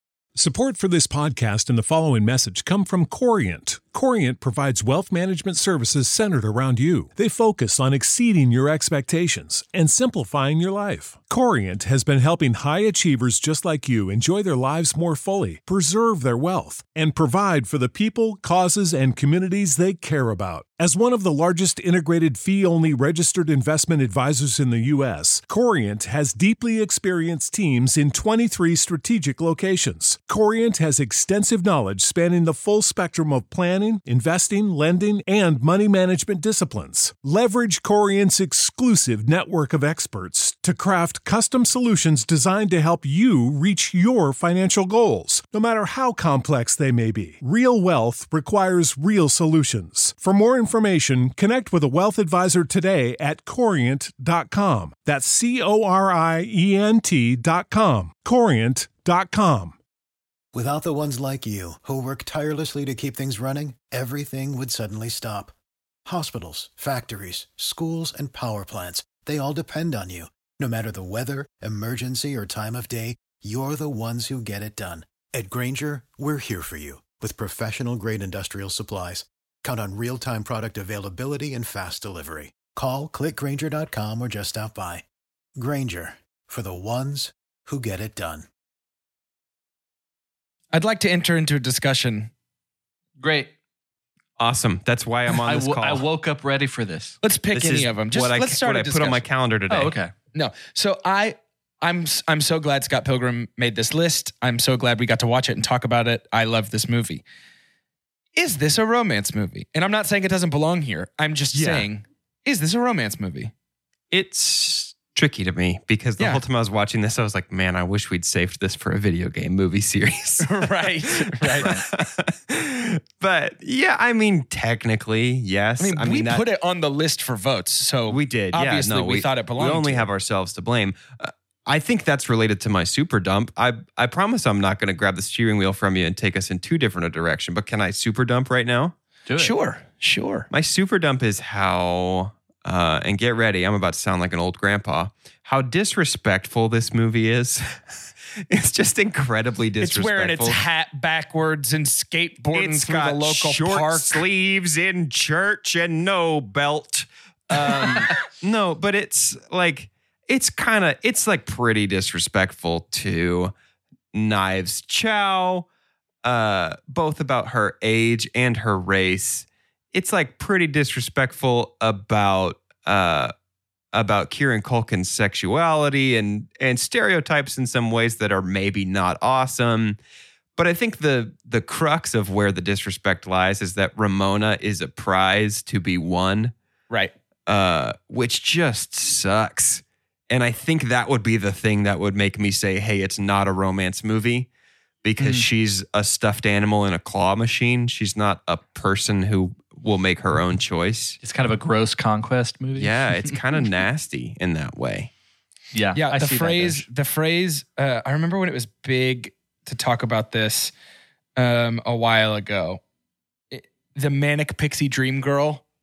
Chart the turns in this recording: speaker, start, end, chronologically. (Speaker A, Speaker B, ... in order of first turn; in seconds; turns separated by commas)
Speaker A: 0.3-59.8, Speaker B: 60.5-65.5, Speaker B: 66.0-85.0, Speaker B: 85.6-88.5, Speaker C: 90.7-92.3, Speaker D: 93.2-93.5, Speaker E: 94.4-96.0, Speaker D: 95.4-97.2, Speaker C: 97.2-99.2, Speaker E: 97.5-100.0, Speaker D: 99.7-100.1, Speaker C: 100.3-107.2, Speaker C: 108.4-113.5, Speaker E: 111.5-111.9, Speaker E: 114.1-126.5, Speaker C: 120.4-121.7, Speaker C: 125.8-130.1, Speaker E: 128.1-138.9, Speaker D: 139.3-139.5, Speaker C: 139.4-140.5, Speaker E: 140.5-147.8, Speaker E: 148.5-150.6, Speaker C: 149.8-154.2, Speaker E: 152.5-163.5, Speaker C: 157.5-158.1, Speaker E: 164.1-165.7, Speaker E: 166.2-173.3, Speaker E: 173.9-180.0, Speaker E: 180.6-186.5, Speaker E: 187.5-194.5, Speaker E: 195.0-201.2, Speaker D: 195.2-195.4, Speaker D: 201.2-203.4, Speaker E: 202.8-205.1, Speaker D: 205.7-206.9, Speaker C: 205.9-210.7, Speaker C: 211.4-212.8, Speaker C: 213.5-215.6